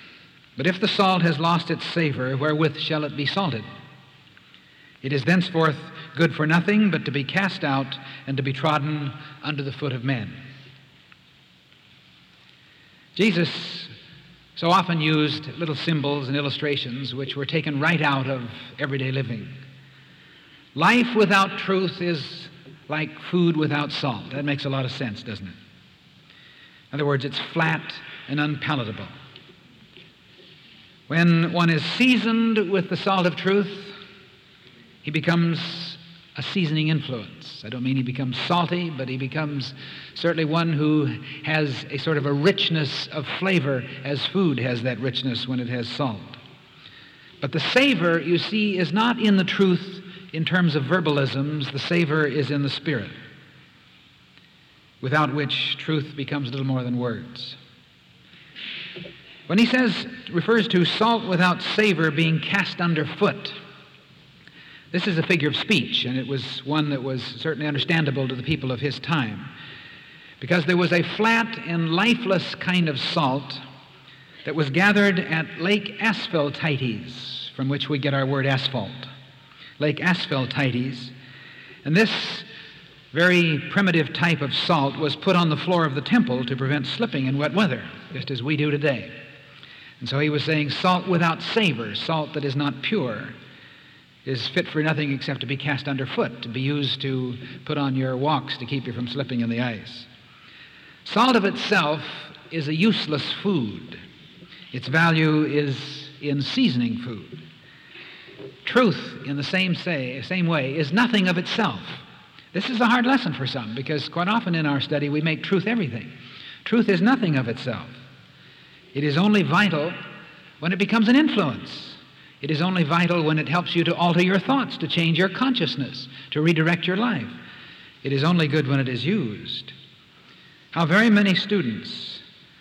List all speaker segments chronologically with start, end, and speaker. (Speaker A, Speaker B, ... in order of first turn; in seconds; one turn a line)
Speaker A: 0.6-3.6
Speaker A: 5.0-10.4
Speaker A: 13.2-13.9
Speaker A: 14.6-19.5
Speaker A: 20.7-25.6
Speaker A: 26.9-29.1
Speaker A: 31.1-33.9
Speaker A: 35.0-46.4
Speaker A: 47.4-53.1
Speaker A: 55.0-57.5
Speaker A: 59.5-63.5
Speaker A: 64.9-69.5
Speaker A: 70.4-73.6
Speaker A: 74.4-79.1
Speaker A: 79.8-81.1
Speaker A: 81.8-82.5
Speaker A: 83.1-89.1
Speaker A: 90.0-93.3
Speaker A: 94.2-100.1
Speaker A: 101.0-104.0
Speaker A: 104.7-107.4
Speaker A: 108.6-116.1
Speaker A: 116.6-118.0
Speaker A: 118.9-120.0
Speaker A: 120.6-127.3
Speaker A: 128.0-129.7
Speaker A: 130.7-132.2